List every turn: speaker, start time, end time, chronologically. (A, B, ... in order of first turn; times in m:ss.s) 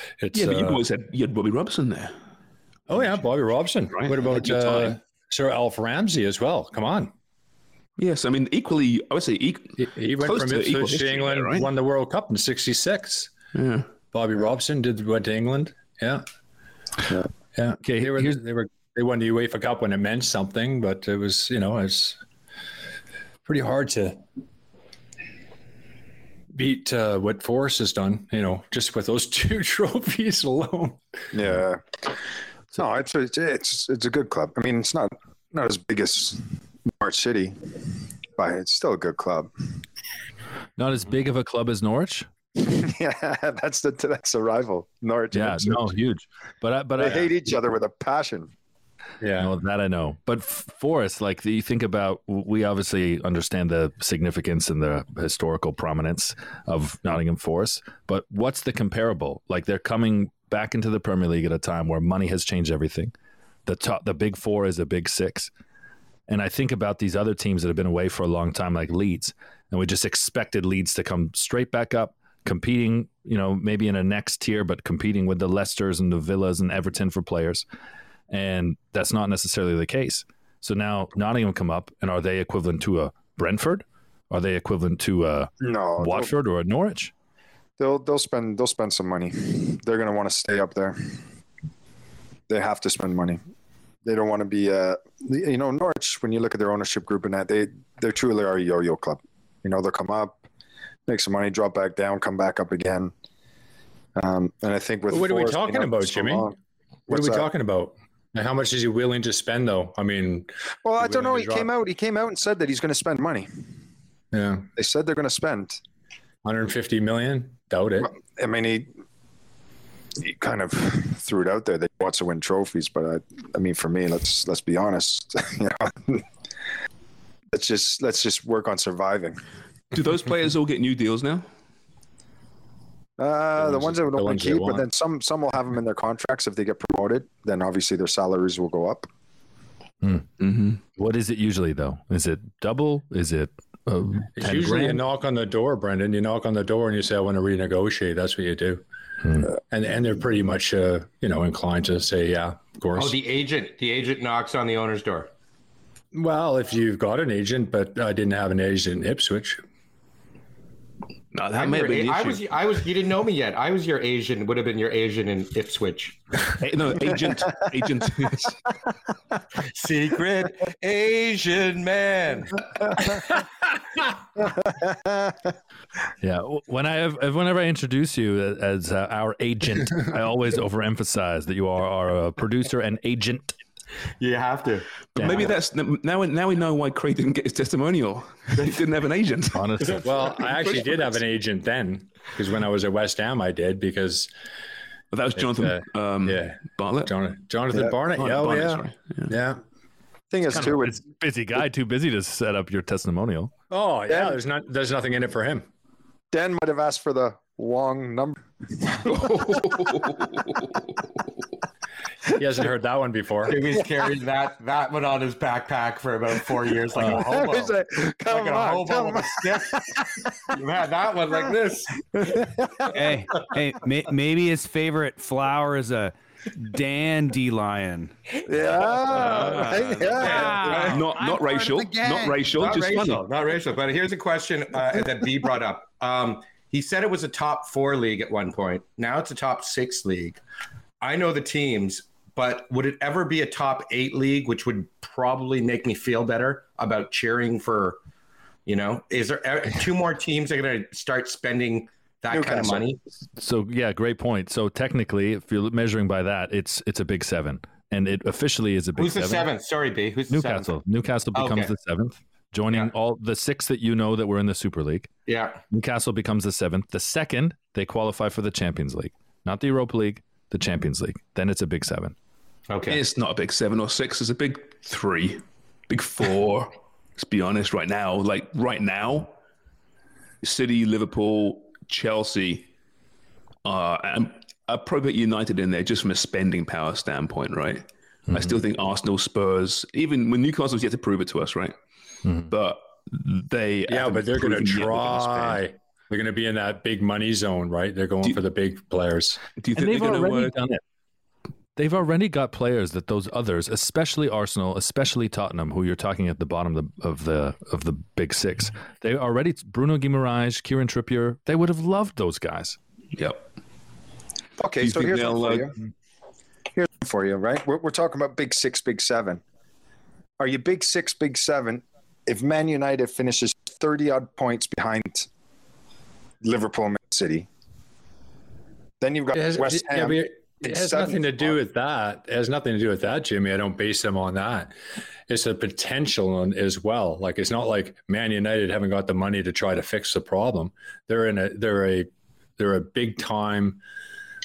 0:00.2-0:00.8 A
0:00.3-0:02.1 B
0:02.9-0:07.1 A
0:03.9-0:04.9 B
0:08.0-0:11.7 B
0:09.8-0:13.3 A
0:13.5-0:13.9 B
0:14.1-0:16.2 A
0:17.5-0:22.2 A
0:17.8-0:18.4 C
0:23.4-0:24.2 A
0:26.5-0:31.0 A
0:31.3-0:32.0 D
0:32.7-0:36.4 D
0:36.9-0:37.8 D
0:38.4-0:39.5 D
0:40.8-0:42.3 C
0:42.6-0:45.9 D
0:45.3-0:47.3 C
0:47.0-0:48.5 D
0:49.2-0:49.5 A
0:49.4-1:03.1 C
1:03.6-1:05.5 C
1:06.3-1:17.6 C
1:18.3-1:27.1 C
1:25.6-1:26.3 D
1:27.8-1:31.2 D
1:32.5-1:33.4 D
1:34.0-1:40.4 D
1:41.1-1:43.1 D
1:44.2-1:46.5 D
1:45.1-1:46.5 A
1:47.1-1:51.7 A
1:47.1-1:47.5 D
1:50.8-1:53.5 D
1:54.3-1:54.7 A
1:54.8-1:55.8 D
1:56.4-1:58.1 A
1:58.0-1:58.9 D
2:00.2-2:06.2 D
2:07.5-2:09.4 D
2:09.9-2:11.5 B
2:13.2-2:19.1 D
2:13.6-2:14.9 A
2:20.0-2:20.3 C
2:20.4-2:20.8 B
2:20.9-2:25.0 C
2:24.4-2:28.8 A
2:29.2-2:29.5 C
2:29.7-2:33.2 A
2:32.9-2:35.3 E
2:36.1-2:39.6 A
2:41.3-2:42.4 B
2:41.5-2:46.2 E
2:46.6-2:48.6 B
2:49.7-2:52.6 E
2:54.7-2:55.1 D
2:56.2-3:03.6 C
3:04.2-3:05.4 E
3:05.2-3:05.4 C
3:05.2-3:09.9 B
3:08.6-3:08.8 E
3:09.5-3:10.1 C
3:09.8-3:10.8 E
3:10.0-3:14.3 A
3:15.1-3:17.1 B
3:15.4-3:19.6 A
3:18.2-3:19.3 B
3:20.3-3:20.9 D
3:20.5-3:23.5 C
3:23.7-3:25.7 A
3:24.1-3:24.3 D
3:26.3-3:29.9 D
3:29.0-3:30.5 B
3:32.3-3:33.6 A
3:33.4-3:39.8 E
3:37.0-3:40.0 D
3:40.5-3:42.0 E
3:42.2-3:43.1 D
3:42.9-3:48.1 F
3:48.4-3:50.9 D
3:48.9-3:52.4 F
3:49.3-3:51.2 E
3:50.9-3:53.2 B
3:52.4-4:00.4 E
4:01.0-4:08.0 E
4:08.6-4:13.0 E
4:12.3-4:12.8 D
4:13.4-4:19.5 C
4:19.0-4:20.8 E
4:20.3-4:25.1 C
4:21.3-4:21.7 E
4:25.3-4:25.6 E
4:25.7-4:32.1 C
4:32.7-4:33.0 E
4:32.9-4:39.3 B
4:40.4-4:42.7 B
4:43.6-4:51.7 B
4:48.3-4:48.6 C
4:52.2-4:52.5 C
4:52.5-4:55.6 B
4:53.9-4:59.4 A
4:59.6-5:00.6 B
4:59.7-5:00.8 C
5:01.8-5:12.8 C
5:13.1-5:13.4 B
5:14.6-5:15.7 D
5:14.8-5:15.7 B
5:16.8-5:19.4 D
5:20.4-5:25.3 D
5:26.4-5:27.5 D
5:29.0-5:31.6 D
5:29.3-5:34.7 A
5:35.3-5:43.8 A